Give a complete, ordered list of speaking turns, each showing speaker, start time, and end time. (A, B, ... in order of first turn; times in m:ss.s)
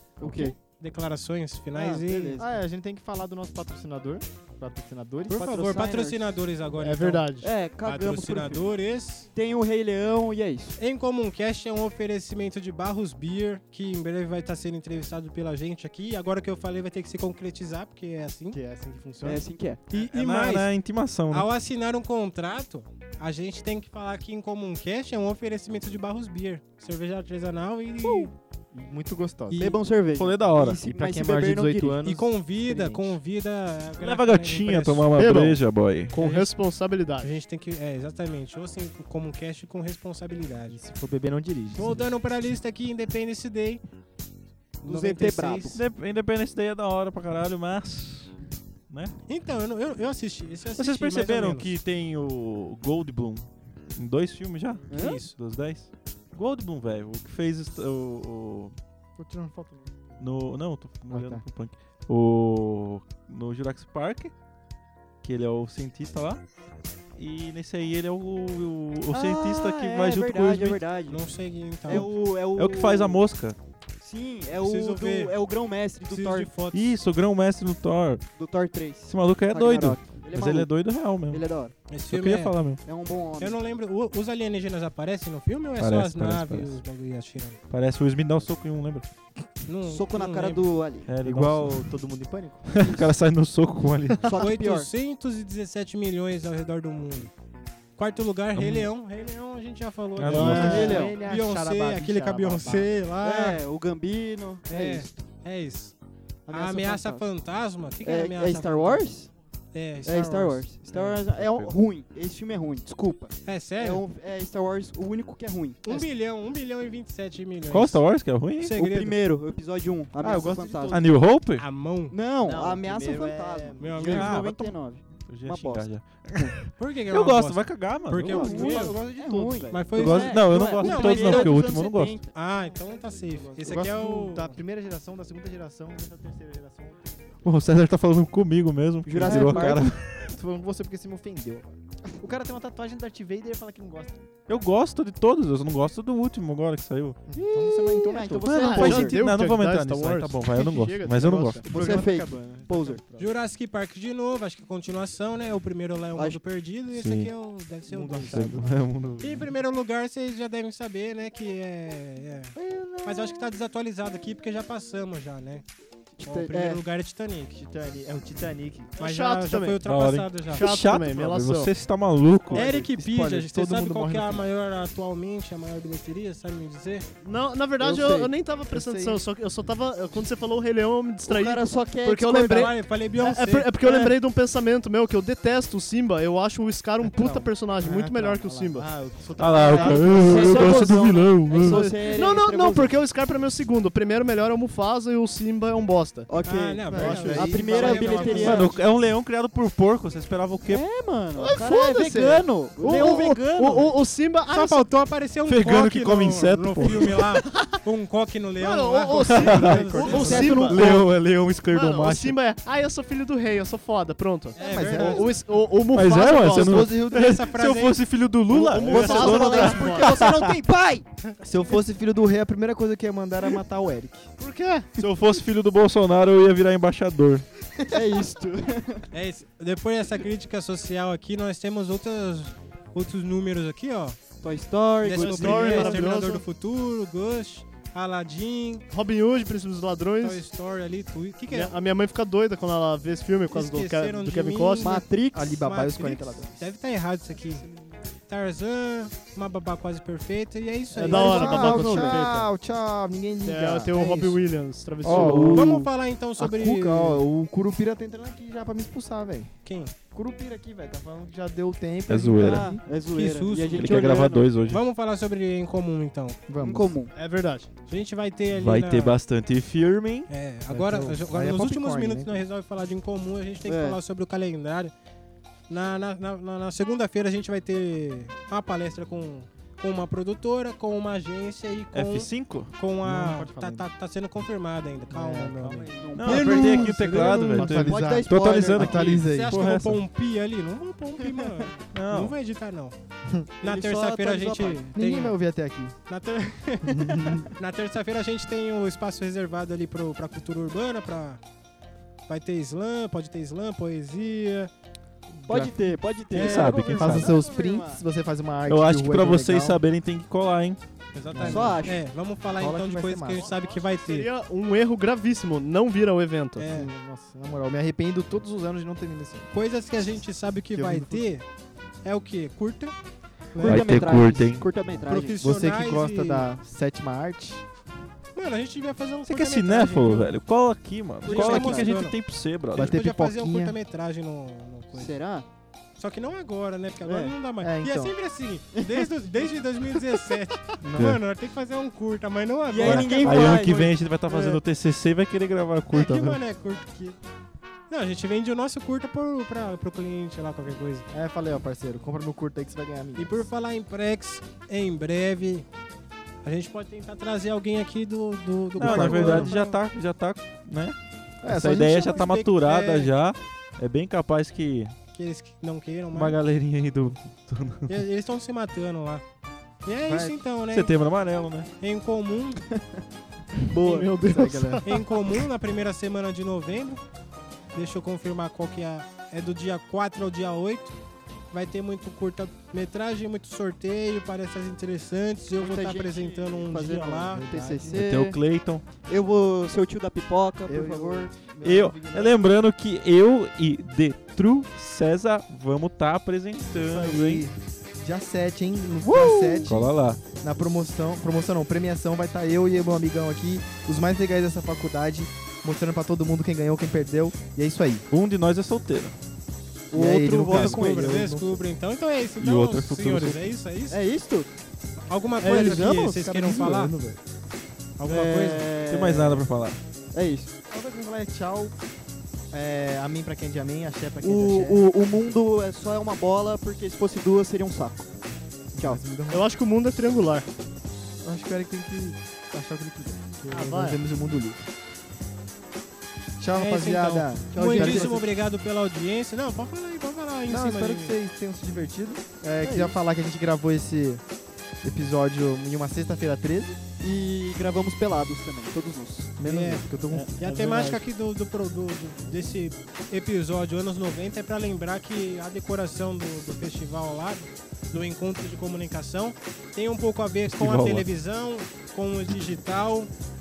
0:00.2-0:00.6 A
0:00.2-0:02.4 B
0:01.7-0:02.5 A
0:02.4-0:05.4 C
0:05.3-0:06.3 A
0:05.3-0:07.2 B
0:06.8-0:07.5 D
0:07.4-0:08.7 A
0:07.8-0:09.3 B
0:09.3-0:10.8 A
0:10.8-0:18.6 B
0:18.5-0:19.4 C
0:19.2-0:19.8 A
0:19.9-0:20.7 B
0:19.9-0:21.5 E
0:21.3-0:28.3 B
0:28.0-0:28.3 A
0:28.7-0:29.7 C
0:29.5-0:29.8 B
0:29.6-0:32.0 A
0:30.2-0:30.8 E
0:30.8-0:33.2 C
0:32.0-0:35.1 B
0:34.0-0:36.2 E
0:35.1-0:37.3 D
0:36.1-0:36.5 B
0:37.2-0:40.8 B
0:40.7-0:42.0 C
0:41.7-0:43.8 B
0:44.8-0:45.8 B
0:44.8-0:45.8 A
0:45.7-0:48.3 E
0:49.3-0:51.7 B
0:50.8-0:58.7 E
0:54.9-0:55.2 A
0:54.9-0:55.3 B
0:59.2-1:00.2 C
1:00.2-1:04.3 E
1:01.1-1:01.4 C
1:05.2-1:06.4 E
1:07.2-1:10.8 E
1:09.1-1:11.2 A
1:11.1-1:12.1 B
1:11.8-1:13.2 A
1:11.9-1:13.6 E
1:14.0-1:16.5 A
1:14.6-1:15.3 B
1:16.1-1:16.9 B
1:16.7-1:18.2 E
1:18.4-1:21.7 A
1:19.1-1:21.4 E
1:21.9-1:22.6 B
1:22.1-1:22.8 E
1:22.8-1:23.6 A
1:23.4-1:27.6 B
1:25.8-1:26.8 E
1:27.7-1:29.0 E
1:29.6-1:30.6 B
1:29.8-1:31.1 A
1:31.1-1:31.9 E
1:31.2-1:32.8 C
1:32.7-1:34.3 E
1:34.2-1:34.9 A
1:34.3-1:37.3 B
1:38.0-1:43.6 B
1:38.5-1:38.9 E
1:40.2-1:40.9 E
1:40.2-1:42.9 C
1:40.4-1:41.2 A
1:43.2-1:45.1 A
1:44.7-1:45.9 B
1:46.4-1:47.2 A
1:46.5-1:49.0 B
1:48.0-1:49.3 A
1:49.7-1:51.2 B
1:50.0-1:56.1 A
1:51.3-1:51.7 E
1:53.4-1:54.0 B
1:55.8-1:59.1 B
1:57.7-1:58.8 E
1:58.8-2:01.0 A
2:00.2-2:01.0 C
2:00.9-2:01.7 E
2:01.6-2:02.1 B
2:02.1-2:06.2 A
2:02.4-2:04.4 C
2:03.8-2:04.7 B
2:05.1-2:09.0 E
2:06.7-2:09.0 B
2:08.2-2:10.3 C
2:08.2-2:12.3 A
2:09.7-2:11.6 B
2:09.9-2:12.2 E
2:12.3-2:14.5 B
2:12.5-2:17.5 C
2:17.4-2:20.2 E
2:19.0-2:20.0 A
2:19.2-2:24.2 C
2:24.5-2:27.2 E
2:27.3-2:28.8 C
2:27.3-2:29.2 A
2:28.5-2:31.6 E
2:28.5-2:31.6 D
2:31.6-2:33.3 C
2:31.7-2:33.0 A
2:33.2-2:38.6 B
2:36.9-2:37.3 E
2:37.9-2:38.6 C
2:38.2-2:39.5 E
2:39.2-2:45.6 B
2:42.6-2:43.3 A
2:46.2-2:46.8 A
2:46.2-2:47.6 B
2:47.5-2:48.9 C
2:49.0-2:49.8 D
2:49.0-2:50.6 B
2:49.8-2:52.9 E
2:50.5-2:51.7 D
2:52.5-2:54.5 C
2:52.5-2:57.0 B
2:57.2-3:08.9 D
2:57.8-2:58.3 A
2:58.7-2:59.2 C
3:01.2-3:02.7 A
3:02.5-3:03.7 B
3:03.8-3:04.1 A
3:07.0-3:10.8 C
3:09.4-3:11.8 E
3:09.7-3:13.0 A
3:09.9-3:10.8 D
3:11.5-3:16.3 D
3:11.7-3:12.0 C
3:16.3-3:18.7 A
3:16.4-3:18.7 B
3:16.9-3:18.7 C
3:17.0-3:17.4 D
3:18.4-3:20.8 E
3:20.6-3:23.9 A
3:21.4-3:22.3 D
3:21.8-3:22.4 C
3:22.8-3:24.9 D
3:24.5-3:30.5 B
3:25.5-3:27.2 E
3:28.6-3:31.0 D
3:29.3-3:32.4 E
3:29.7-3:30.7 C
3:30.1-3:31.0 A
3:31.7-3:36.9 D
3:34.6-3:35.3 B
3:34.6-3:35.4 C
3:35.9-3:40.5 E
3:36.5-3:37.4 C
3:37.0-3:38.0 B
3:38.5-3:40.4 D
3:38.8-3:41.0 A
3:41.4-3:44.3 C
3:44.4-3:45.0 D
3:45.0-3:47.4 E
3:47.9-3:49.1 A
3:49.1-3:54.2 B
3:54.4-3:56.1 A
3:55.0-3:58.8 B
3:55.1-3:56.4 D
3:58.9-4:00.4 D
4:00.2-4:01.7 B
4:01.5-4:05.0 D
4:03.5-4:05.0 B
4:04.8-4:05.6 A
4:05.3-4:06.6 C
4:05.6-4:07.6 B
4:07.5-4:07.9 C
4:08.3-4:12.1 B
4:11.0-4:12.5 D
4:11.0-4:14.3 C
4:11.5-4:12.0 A
4:13.4-4:15.7 D
4:13.9-4:14.4 B
4:15.0-4:19.5 C
4:15.1-4:15.3 A
4:15.4-4:17.2 B
4:19.6-4:19.9 B
4:20.1-4:22.8 C
4:22.1-4:22.6 E
4:22.4-4:24.5 A
4:23.1-4:26.4 B
4:23.7-4:24.8 E
4:26.5-4:26.9 C
4:26.6-4:27.1 A
4:27.1-4:27.7 D
4:27.9-4:29.2 B
4:28.5-4:30.3 E
4:30.3-4:34.9 B
4:30.7-4:32.4 C
4:33.6-4:34.0 A
4:35.7-4:47.5 B
4:41.9-4:42.7 E
4:43.0-4:43.9 C
4:45.1-4:49.6 C
4:46.0-4:47.0 A
4:46.2-4:50.0 E
4:47.5-4:49.1 A
4:49.2-4:52.9 B
4:51.9-4:52.4 E
4:53.6-4:55.4 B
4:53.6-4:54.9 A
4:54.9-4:56.0 C
4:56.1-5:01.4 B
4:56.8-4:57.5 C
5:02.3-5:04.7 B
5:05.4-5:05.7 C
5:05.5-5:08.0 A
5:06.3-5:07.3 B
5:06.3-5:07.3 E
5:07.0-5:09.8 C
5:08.7-5:10.8 E
5:11.1-5:14.3 B
5:11.3-5:11.9 C
5:11.4-5:12.0 A
5:12.5-5:13.5 C
5:13.3-5:16.6 D
5:16.6-5:16.9 B
5:16.6-5:19.5 C
5:19.5-5:21.4 B
5:20.7-5:21.3 C
5:22.0-5:22.9 B
5:23.5-5:23.9 B
5:23.6-5:25.4 A
5:23.6-5:24.7 E
5:25.1-5:26.5 B
5:25.2-5:27.6 C
5:28.3-5:30.4 B
5:29.3-5:32.9 E
5:31.2-5:32.2 B
5:31.3-5:31.8 C
5:31.3-5:31.8 A
5:32.7-5:33.8 C
5:32.7-5:35.1 B
5:34.9-5:35.5 A
5:36.0-5:43.6 B
5:37.0-5:37.3 A
5:37.6-5:38.2 C
5:38.7-5:39.1 A
5:40.8-5:41.2 E
5:42.7-5:44.0 A
5:42.8-5:46.4 E
5:44.3-5:44.6 B
5:45.9-5:47.2 B
5:47.9-5:51.1 B
5:51.1-5:53.5 C
5:53.2-5:55.6 B
5:56.4-5:59.8 B
5:58.8-6:04.9 E
5:58.8-5:59.5 C
6:01.4-6:02.3 C
6:02.0-6:03.1 B
6:05.1-6:06.4 B
6:06.1-6:07.9 E
6:07.9-6:09.2 B
6:09.8-6:11.0 B
6:10.0-6:10.4 C
6:10.7-6:11.7 E
6:11.8-6:12.6 B
6:13.7-6:15.0 D
6:14.2-6:14.8 C
6:14.8-6:17.0 B
6:17.7-6:20.9 B
6:21.5-6:27.4 B
6:25.6-6:28.4 A
6:27.3-6:28.0 C
6:27.9-6:28.8 E
6:29.1-6:31.3 A
6:30.6-6:32.4 C
6:31.6-6:37.4 E
6:36.7-6:48.0 C
6:39.1-6:39.6 A
6:39.2-6:40.2 E
6:48.1-6:49.1 E
6:49.9-6:51.2 A
6:49.9-6:51.6 C
6:50.4-6:54.0 B
6:52.4-6:53.5 E
6:53.9-6:54.5 A
6:55.1-6:56.9 B
6:55.4-6:57.2 C
6:55.4-6:56.1 A
6:58.0-6:58.6 B
6:58.0-6:59.4 A
6:58.9-6:59.8 E
7:00.1-7:00.5 A
7:00.7-7:01.7 C
7:02.5-7:05.4 C
7:04.2-7:08.1 A
7:08.7-7:09.0 A
7:08.7-7:09.5 C
7:09.3-7:10.5 D
7:11.2-7:14.6 C
7:13.5-7:14.0 D
7:16.4-7:18.2 C
7:16.6-7:21.2 B
7:17.7-7:18.1 A
7:20.5-7:24.2 C
7:22.6-7:22.9 A
7:24.8-7:26.8 C
7:27.0-7:29.3 A
7:29.4-7:31.0 C
7:29.4-7:29.8 B
7:30.4-7:43.1 B
7:40.5-7:41.0 E